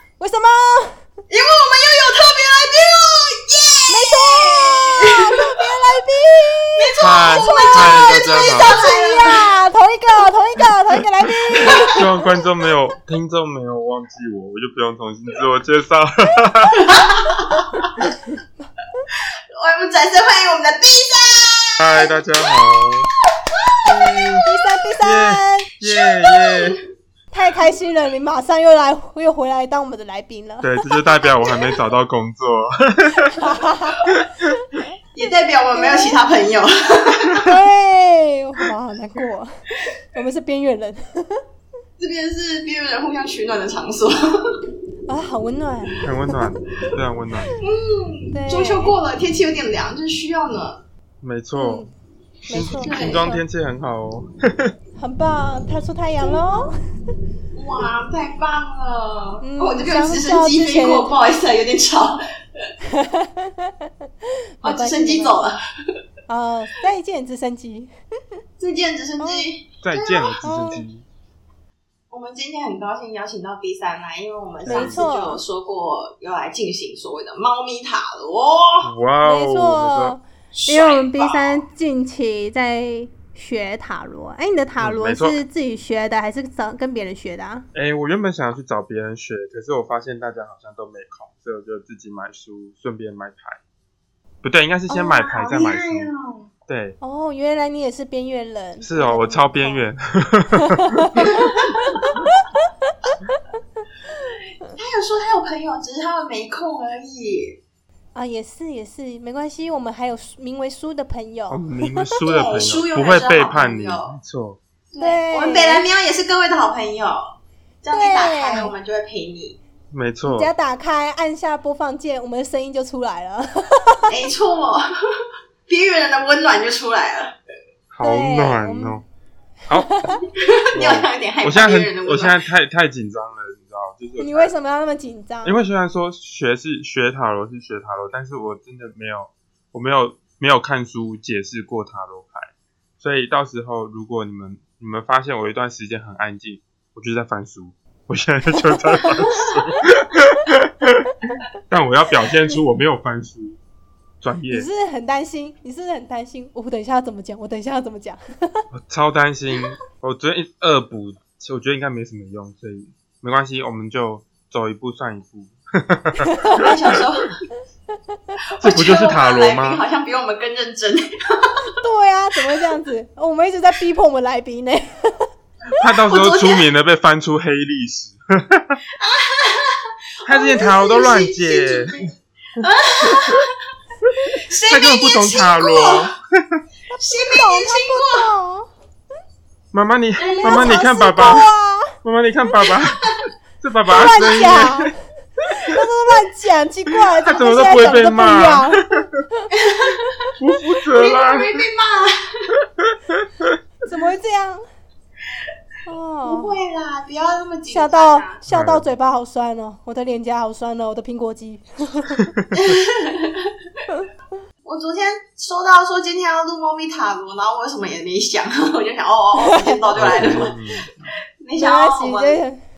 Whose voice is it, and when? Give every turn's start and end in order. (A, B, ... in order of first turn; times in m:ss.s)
0:00.2-0:01.0 A
0:01.3-0:05.4 B
0:03.9-0:12.3 A
0:06.7-0:09.5 B
0:07.0-0:08.8 C
0:11.6-0:16.9 C
0:11.6-0:11.8 B
0:16.8-0:17.9 B
0:18.0-0:18.4 C
0:19.1-0:22.6 B
0:21.8-0:23.1 C
0:23.5-0:24.4 B
0:23.8-0:24.4 C
0:24.4-0:25.7 A
0:25.0-0:26.8 C
0:25.8-0:26.8 B
0:27.3-0:30.7 A
0:30.6-0:33.5 C
0:31.4-0:31.7 B
0:33.4-0:34.0 A
0:34.0-0:34.5 C
0:35.1-0:37.5 B
0:35.7-0:36.1 A
0:37.4-0:41.4 A
0:42.0-0:44.6 B
0:45.1-0:46.4 A
0:46.0-0:47.5 C
0:47.6-0:50.8 B
0:48.3-0:48.9 A
0:51.2-0:51.9 C
0:51.5-0:51.9 A
0:52.5-0:53.4 A
0:52.5-0:54.7 C
0:52.6-0:53.3 B
0:55.0-0:56.7 A
0:56.2-0:56.7 B
0:57.5-1:02.6 B
0:59.4-1:01.1 A
1:02.8-1:03.9 A
1:04.6-1:05.5 A
1:04.6-1:05.6 B
1:06.3-1:07.9 A
1:08.6-1:10.8 B
1:09.2-1:09.5 A
1:09.8-1:11.0 C
1:10.4-1:10.8 A
1:12.1-1:18.9 B
1:14.6-1:15.1 C
1:14.6-1:15.4 A
1:18.8-1:20.2 C
1:19.2-1:27.6 A
1:20.5-1:21.6 B
1:24.8-1:25.4 C
1:27.7-1:33.6 C
1:34.4-1:36.1 C
1:34.9-1:36.5 B
1:36.7-1:37.0 C
1:37.0-1:39.9 A
1:38.8-1:41.3 C
1:40.8-1:42.7 A
1:41.2-1:42.0 B
1:44.3-1:47.6 B
1:48.1-1:52.0 A
1:51.5-1:54.6 C
1:52.2-1:54.1 B
1:54.9-1:59.6 B
1:55.0-1:55.9 A
1:57.9-1:58.7 A
1:59.9-2:00.5 C
2:00.2-2:04.1 A
2:04.1-2:07.4 B
2:07.9-2:09.0 C
2:08.0-2:09.0 A
2:09.8-2:10.2 A
2:10.3-2:12.4 B
2:10.7-2:14.5 C
2:14.2-2:15.6 A
2:15.4-2:31.1 C
2:28.7-2:29.1 A
2:31.7-2:33.6 C
2:34.2-2:34.7 C
2:34.5-2:38.6 A
2:38.7-2:47.0 C
2:46.2-2:46.6 A
2:46.5-2:47.4 B
2:48.5-2:51.7 B
2:48.6-2:49.8 C
2:51.7-2:55.3 A
2:55.8-2:58.8 C
2:55.8-2:56.6 B
2:59.0-3:03.5 B
3:00.2-3:03.4 C
3:04.3-3:06.1 B
3:04.7-3:06.6 C
3:06.9-3:08.7 A
3:07.0-3:08.3 B
3:09.7-3:11.5 C
3:10.2-3:10.8 B
3:10.4-3:12.0 A
3:12.0-3:13.1 C
3:13.6-3:14.9 C
3:13.9-3:14.9 A
3:15.4-3:15.8 C
3:15.6-3:19.5 A
3:17.1-3:19.2 C
3:19.5-3:20.3 B
3:20.4-3:21.6 C
3:20.9-3:22.5 B
3:22.8-3:23.6 C
3:23.8-3:24.6 A
3:25.8-3:26.6 A
3:26.2-3:28.4 B
3:27.7-3:32.3 A
3:28.5-3:28.9 C
3:32.1-3:32.8 C
3:32.5-3:33.5 B
3:34.6-3:40.6 B
3:39.4-3:40.4 A
3:39.9-3:41.1 C
3:41.4-3:42.4 B
3:41.6-3:42.6 A